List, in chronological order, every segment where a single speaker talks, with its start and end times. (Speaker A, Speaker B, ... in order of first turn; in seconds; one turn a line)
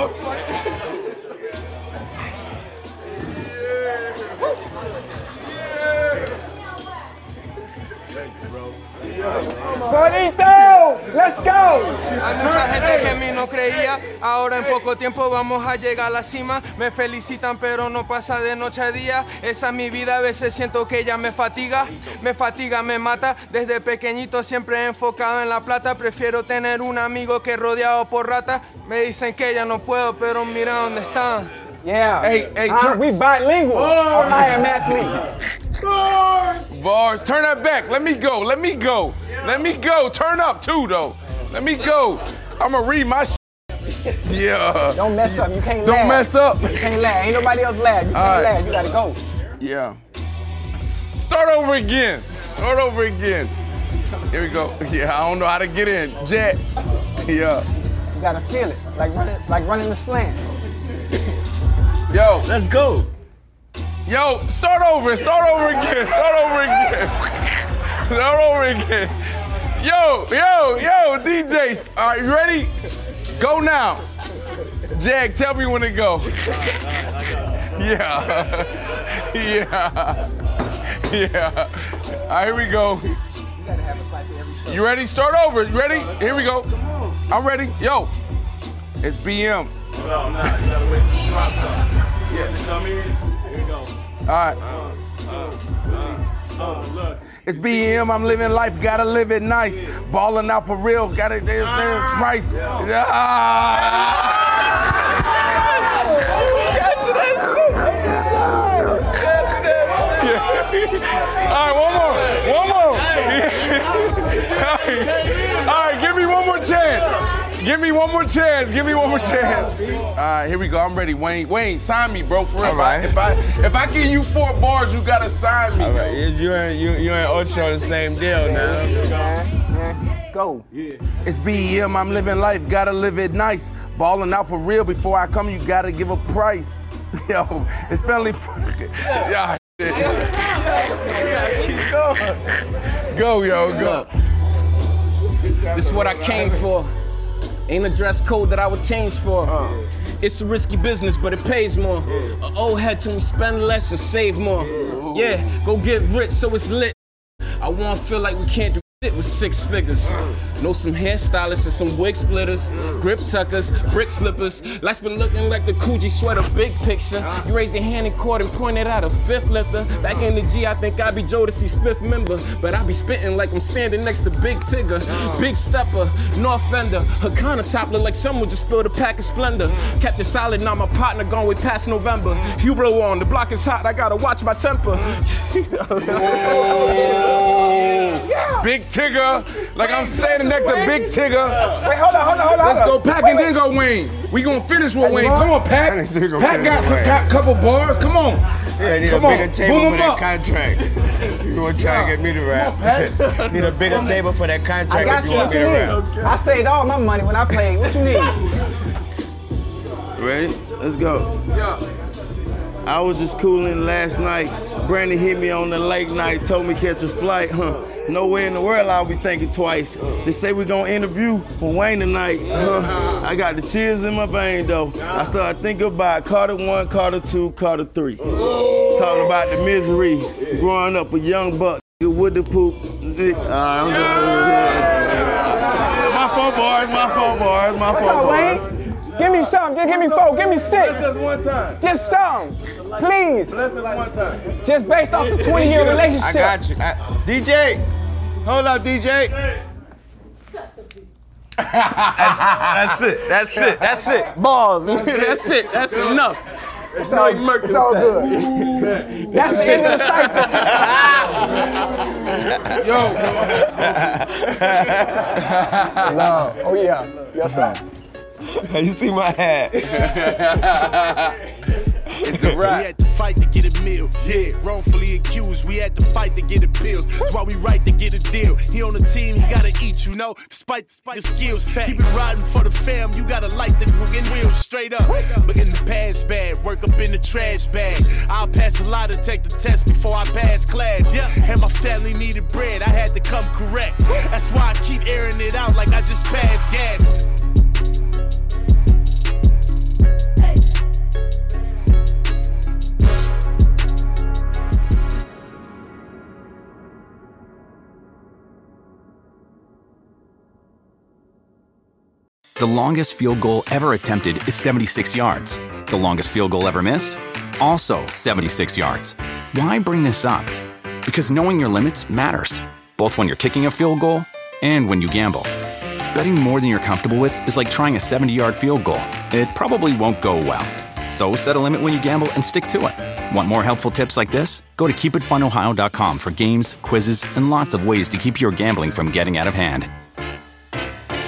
Speaker A: 9.6-12.2
Speaker B: 12.2-13.9
Speaker C: 12.2-31.5
Speaker D: 28.8-29.2
Speaker A: 31.8-35.3
Speaker B: 32.2-33.1
Speaker B: 33.7-35.0
Speaker B: 35.8-43.4
Speaker B: 44.0-47.0
Speaker A: 44.9-49.2
Speaker B: 48.1-48.5
Speaker B: 49.6-50.0
Speaker B: 51.2-53.5
Speaker B: 54.3-56.6
Speaker B: 57.2-57.6
Speaker A: 58.1-60.4
Speaker B: 62.1-62.5
Speaker E: 62.4-63.1
Speaker B: 64.0-72.7
Speaker B: 73.4-74.0
Speaker B: 74.9-76.8
Speaker B: 77.7-80.3
Speaker B: 80.9-83.2
Speaker A: 83.6-84.8
Speaker B: 84.7-86.7
Speaker B: 87.3-88.1
Speaker B: 89.0-89.7
Speaker B: 92.3-92.8
Speaker B: 94.2-94.6
Speaker B: 97.3-104.8
Speaker B: 106.4-106.8
Speaker A: 107.2-108.1
Speaker B: 109.2-126.2
Speaker E: 122.6-123.1
Speaker E: 125.8-129.1
Speaker A: 128.4-130.7
Speaker B: 131.2-144.1
Speaker A: 140.0-141.5
Speaker D: 145.7-146.9
Speaker B: 145.8-146.6
Speaker D: 147.7-149.6
Speaker D: 150.2-156.9
Speaker E: 154.8-155.2
Speaker D: 157.6-187.1
Speaker B: 186.1-191.8
Speaker A: 186.3-187.0
Speaker A: 188.2-188.7
Speaker A: 189.8-191.1
Speaker A: 191.7-193.5
Speaker B: 192.3-200.3
Speaker A: 195.0-195.6
Speaker E: 195.8-197.3
Speaker E: 198.8-206.1
Speaker B: 202.5-204.2
Speaker A: 204.9-208.4
Speaker B: 204.9-205.6
Speaker F: 210.2-211.3
Speaker F: 212.8-238.7
Speaker A: 237.9-241.1
Speaker F: 239.8-241.9
Speaker A: 241.8-243.6
Speaker F: 243.5-244.4
Speaker A: 244.5-246.6
Speaker E: 245.5-247.8
Speaker E: 248.4-249.4
Speaker B: 251.6-253.8
Speaker E: 252.2-254.2
Speaker D: 253.3-258.9
Speaker B: 255.1-255.4
Speaker A: 257.0-258.4
Speaker B: 258.1-261.1
Speaker A: 259.3-260.9
Speaker E: 260.6-261.5
Speaker E: 262.3-265.5
Speaker B: 262.7-264.1
Speaker B: 264.7-266.5
Speaker A: 265.9-267.8
Speaker E: 268.5-270.6
Speaker B: 269.8-271.4
Speaker B: 272.2-272.9
Speaker E: 272.2-272.6
Speaker G: 272.6-297.2
Speaker H: 312.6-320.5
Speaker H: 321.0-325.5
Speaker H: 326.1-339.9